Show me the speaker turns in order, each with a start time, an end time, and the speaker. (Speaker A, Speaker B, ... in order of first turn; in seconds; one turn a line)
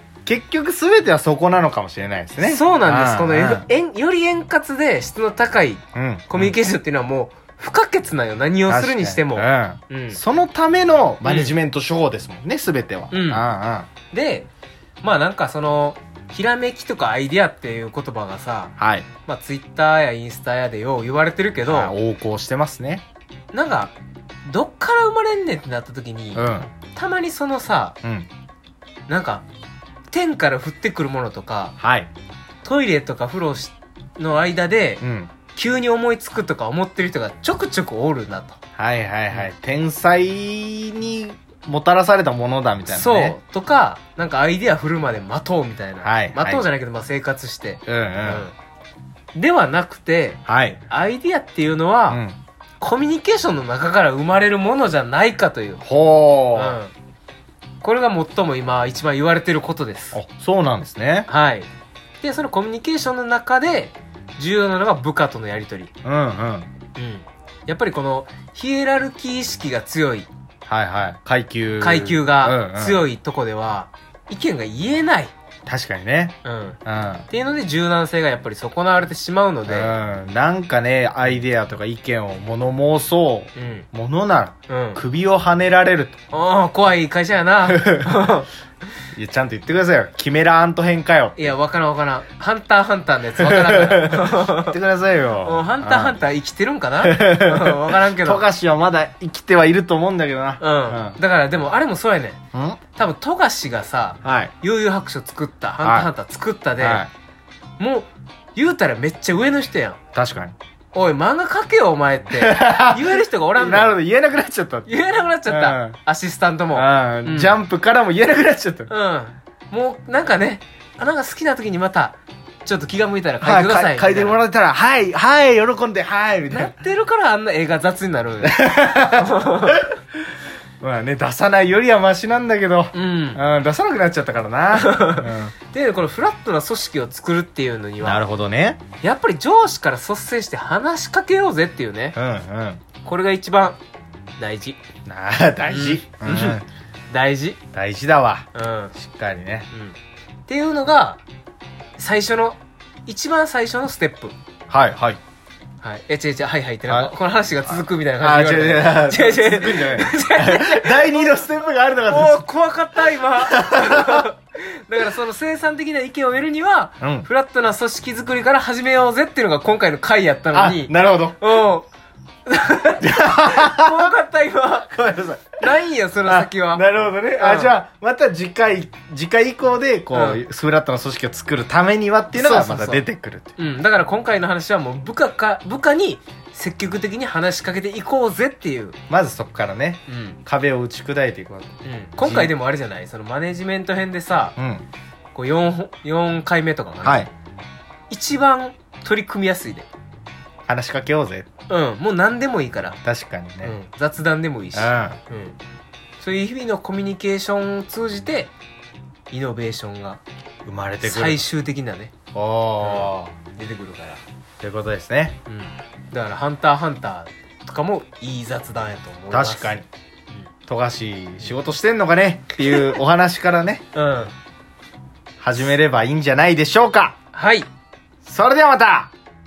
Speaker A: 0.2-3.7
Speaker B: 2.4-10.2
Speaker A: 6.0-6.5
Speaker A: 8.7-13.9
Speaker B: 11.2-11.6
Speaker B: 13.1-13.4
Speaker B: 14.1-14.5
Speaker B: 15.0-18.7
Speaker A: 18.8-19.1
Speaker B: 19.3-21.9
Speaker A: 21.6-23.1
Speaker B: 23.5-23.9
Speaker B: 24.5-28.0
Speaker A: 26.4-26.7
Speaker A: 28.0-28.3
Speaker B: 29.1-29.4
Speaker B: 30.1-31.8
Speaker A: 31.8-32.1
Speaker B: 32.6-35.0
Speaker A: 35.0-35.3
Speaker B: 35.5-38.6
Speaker A: 38.8-43.4
Speaker B: 42.9-48.5
Speaker A: 46.0-46.7
Speaker A: 47.9-48.5
Speaker B: 49.4-52.2
Speaker A: 50.5-50.8
Speaker A: 52.1-52.4
Speaker B: 52.8-55.8
Speaker A: 55.8-56.8
Speaker B: 56.5-56.9
Speaker B: 57.8-60.2
Speaker A: 60.1-61.3
Speaker B: 61.3-61.7
Speaker B: 62.2-65.9
Speaker A: 66.0-66.7
Speaker B: 67.0-70.3
Speaker A: 70.7-73.0
Speaker B: 71.8-75.3
Speaker A: 75.7-77.3
Speaker B: 76.5-76.8
Speaker B: 77.3-80.0
Speaker A: 79.7-86.2
Speaker B: 83.6-83.9
Speaker B: 84.7-85.0
Speaker B: 86.3-88.5
Speaker A: 87.7-88.1
Speaker A: 89.2-91.5
Speaker B: 91.4-94.8
Speaker A: 93.4-96.2
Speaker B: 95.4-98.5
Speaker A: 97.0-101.2
Speaker B: 100.6-102.4
Speaker A: 102.5-102.8
Speaker B: 103.0-107.1
Speaker A: 104.2-104.5
Speaker A: 105.8-106.1
Speaker A: 106.8-107.1
Speaker B: 107.8-110.0
Speaker A: 110.2-110.6
Speaker B: 110.9-114.0
Speaker A: 112.3-114.9
Speaker B: 114.9-117.6
Speaker A: 115.5-116.0
Speaker A: 116.7-118.9
Speaker B: 118.9-124.4
Speaker A: 123.4-126.8
Speaker B: 126.5-129.9
Speaker A: 128.4-129.9
Speaker A: 130.8-135.5
Speaker B: 132.9-133.4
Speaker B: 134.7-138.2
Speaker A: 138.0-138.8
Speaker B: 139.0-142.2
Speaker A: 142.2-142.8
Speaker B: 143.0-143.8
Speaker B: 144.4-144.8
Speaker A: 145.1-146.7
Speaker B: 145.7-147.6
Speaker A: 147.7-149.7
Speaker B: 148.5-148.9
Speaker B: 149.7-151.2
Speaker B: 152.0-154.3
Speaker A: 154.7-155.2
Speaker B: 155.8-161.4
Speaker A: 156.9-157.1
Speaker A: 157.7-162.4
Speaker B: 162.1-171.9
Speaker A: 163.2-164.2
Speaker A: 167.0-167.3
Speaker A: 170.5-171.4
Speaker B: 172.5-174.9
Speaker A: 173.0-174.1
Speaker A: 174.9-183.5
Speaker B: 175.6-176.8
Speaker B: 177.4-177.7
Speaker B: 180.1-180.4
Speaker B: 182.3-183.1
Speaker B: 183.6-189.0
Speaker A: 189.1-192.5
Speaker B: 190.1-190.4
Speaker B: 191.8-194.6
Speaker A: 194.6-194.9
Speaker B: 195.3-197.3
Speaker A: 197.0-197.3
Speaker B: 198.1-199.9
Speaker A: 200.7-201.5
Speaker B: 201.7-203.0
Speaker A: 203.0-203.8
Speaker B: 203.6-205.6
Speaker A: 204.7-205.2
Speaker B: 206.2-208.5
Speaker B: 209.3-210.2
Speaker A: 210.7-211.4
Speaker B: 211.0-212.1
Speaker A: 212.3-213.3
Speaker B: 212.8-214.2
Speaker A: 214.6-215.4
Speaker B: 215.5-219.8
Speaker A: 219.3-219.9
Speaker A: 220.7-223.8
Speaker B: 222.7-222.9
Speaker B: 223.9-224.3
Speaker A: 225.4-227.2
Speaker B: 227.3-227.7
Speaker A: 228.2-229.1